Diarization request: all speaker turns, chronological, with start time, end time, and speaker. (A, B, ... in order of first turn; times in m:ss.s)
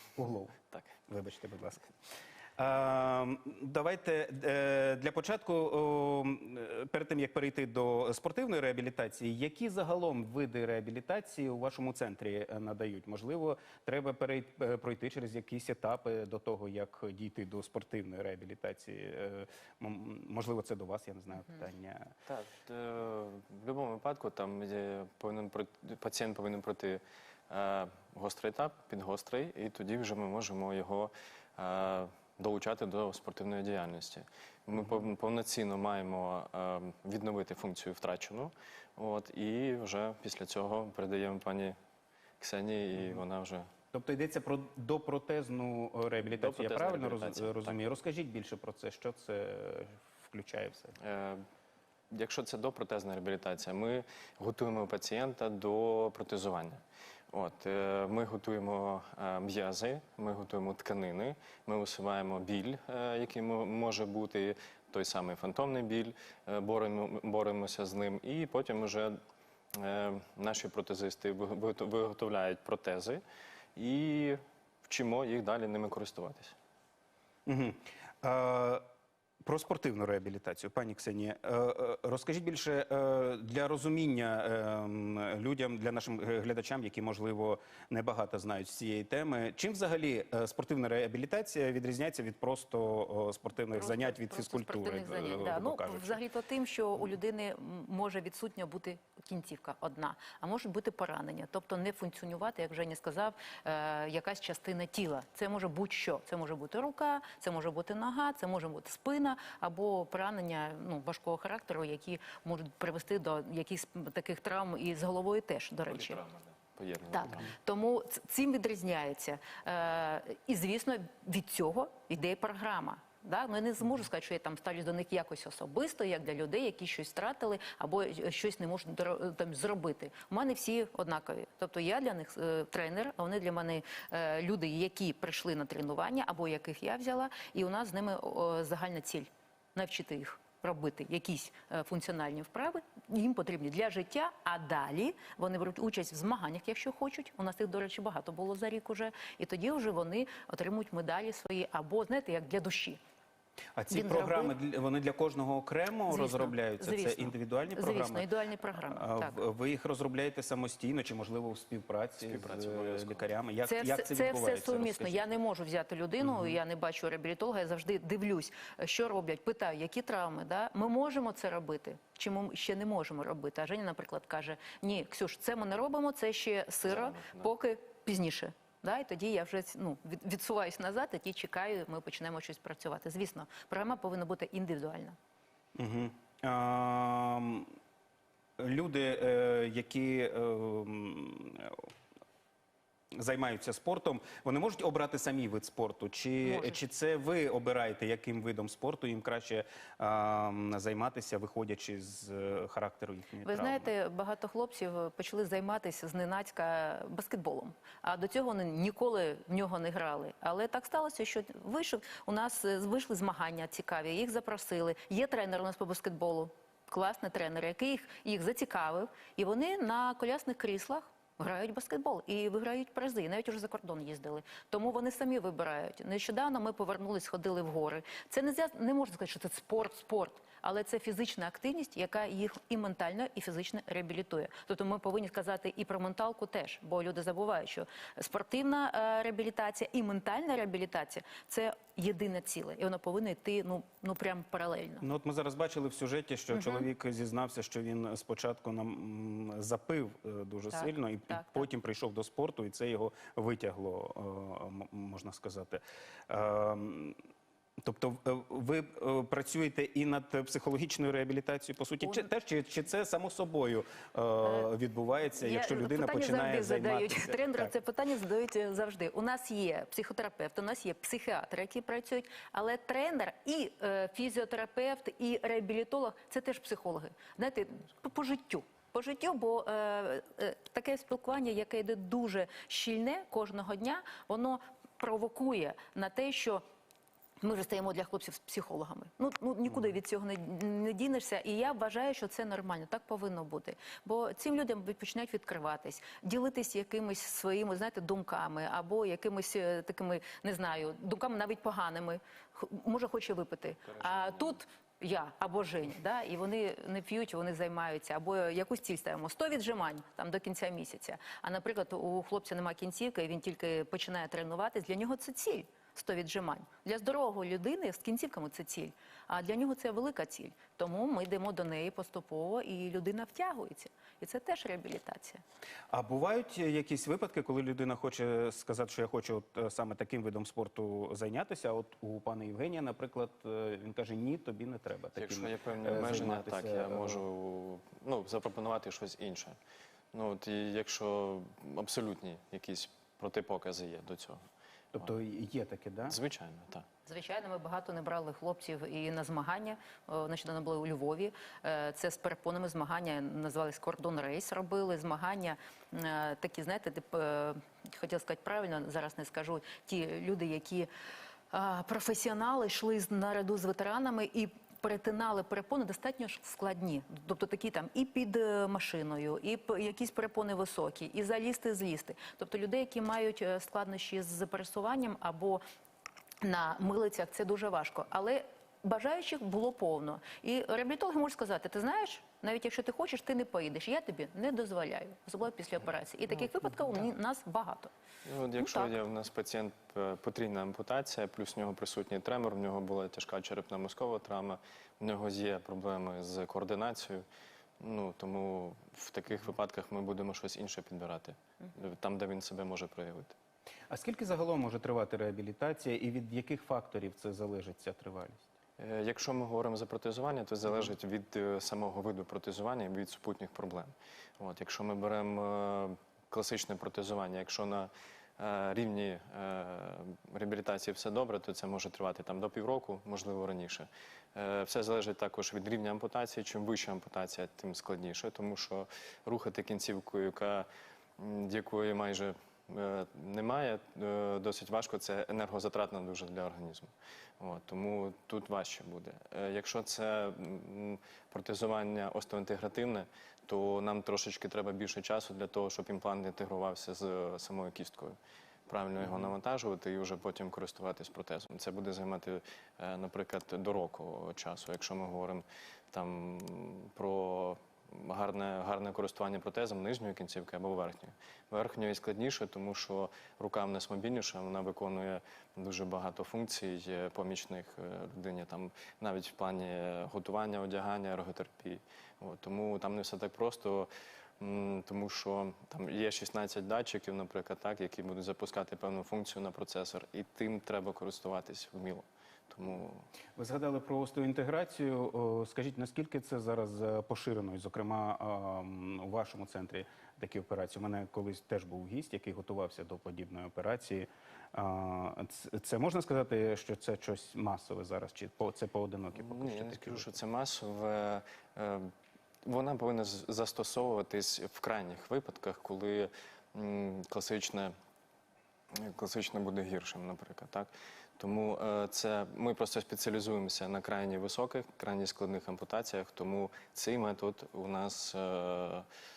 0:00.2-0:00.6 A
0:01.1-0:01.8 A
0:02.6-0:22.1 A
0:22.2-0:41.8 B
0:42.4-0:43.7 B
0:43.9-0:51.0 A
0:46.2-0:47.8 B
0:51.0-0:51.4 B
0:52.1-1:09.2 B
1:09.7-1:13.2 B
1:13.8-1:16.5 B
1:17.5-1:18.8 A
1:19.4-1:36.2 A
1:33.7-1:56.2 C
1:55.9-1:57.5 B
1:57.1-2:33.0 C
2:33.8-2:38.2 A
2:33.9-2:34.5 C
2:36.1-2:39.4 C
2:38.8-2:45.2 A
2:42.2-2:43.3 B
2:43.6-3:05.2 C
2:56.8-2:57.5 B
3:05.8-3:07.7 A
3:08.6-3:11.9 A
3:13.1-3:23.9 A
3:16.4-3:16.8 C
3:23.4-4:05.0 C
4:05.0-4:17.2 A
4:06.5-4:06.9 C
4:10.7-4:11.6 C
4:17.8-4:27.7 A
4:24.4-4:24.7 C
4:25.4-4:46.6 C
4:47.4-5:25.4 C
5:03.9-5:04.6 B
5:25.9-5:37.2 A
5:35.1-5:39.6 B
5:40.1-5:44.4 B
5:44.9-5:46.2 A
5:46.1-5:46.8 B
5:47.0-6:00.9 C
6:01.5-6:15.6 C
6:16.4-6:27.9 C
6:26.3-6:27.0 B
6:28.2-6:37.2 B
6:28.6-6:28.9 C
6:37.8-6:43.3 B
6:43.9-6:48.4 A
6:48.8-8:03.0 B
8:03.4-8:20.1 A
8:19.1-8:21.9 B
8:22.4-8:27.7 B
8:28.7-8:38.8 B